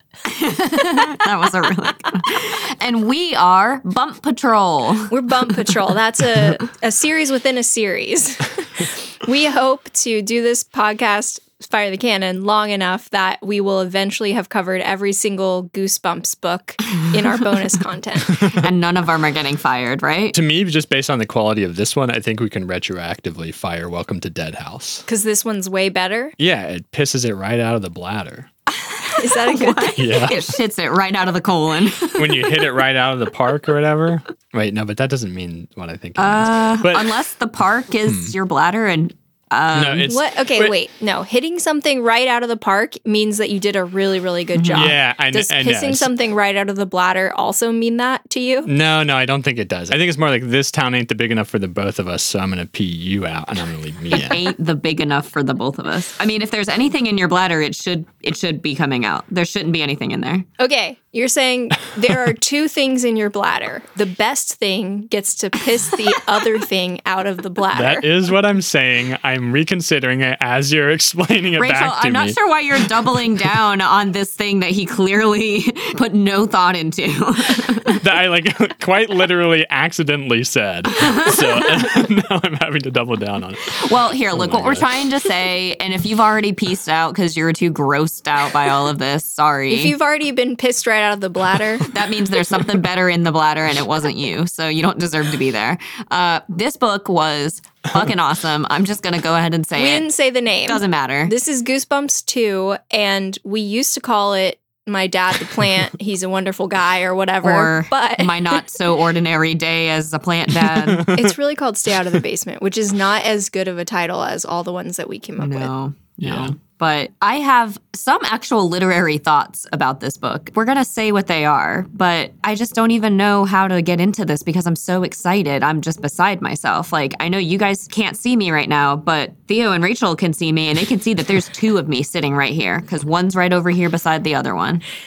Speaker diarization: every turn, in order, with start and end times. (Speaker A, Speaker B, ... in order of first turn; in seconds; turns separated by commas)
Speaker A: 0.3-5.1, Speaker B: 5.1-18.4, Speaker A: 18.5-20.4, Speaker C: 20.3-25.1, Speaker B: 25.1-26.4, Speaker C: 26.4-28.5, Speaker A: 28.9-32.8, Speaker B: 29.1-30.1, Speaker C: 30.0-30.4, Speaker C: 32.2-37.2, Speaker A: 36.2-40.1, Speaker C: 38.0-38.3, Speaker C: 39.7-40.7, Speaker B: 40.0-48.7, Speaker A: 44.5-44.9, Speaker C: 44.7-46.1, Speaker C: 48.7-54.4, Speaker A: 54.1-60.5, Speaker B: 60.6-68.1, Speaker C: 67.8-72.4, Speaker A: 71.5-78.0, Speaker C: 78.0-84.9, Speaker A: 81.0-81.9, Speaker A: 83.7-90.0, Speaker B: 89.7-91.9, Speaker A: 91.9-100.1, Speaker B: 99.8-108.6, Speaker A: 100.7-101.3, Speaker A: 107.4-111.1, Speaker C: 111.0-111.3, Speaker B: 111.1-115.7, Speaker A: 115.4-134.8, Speaker C: 116.2-116.5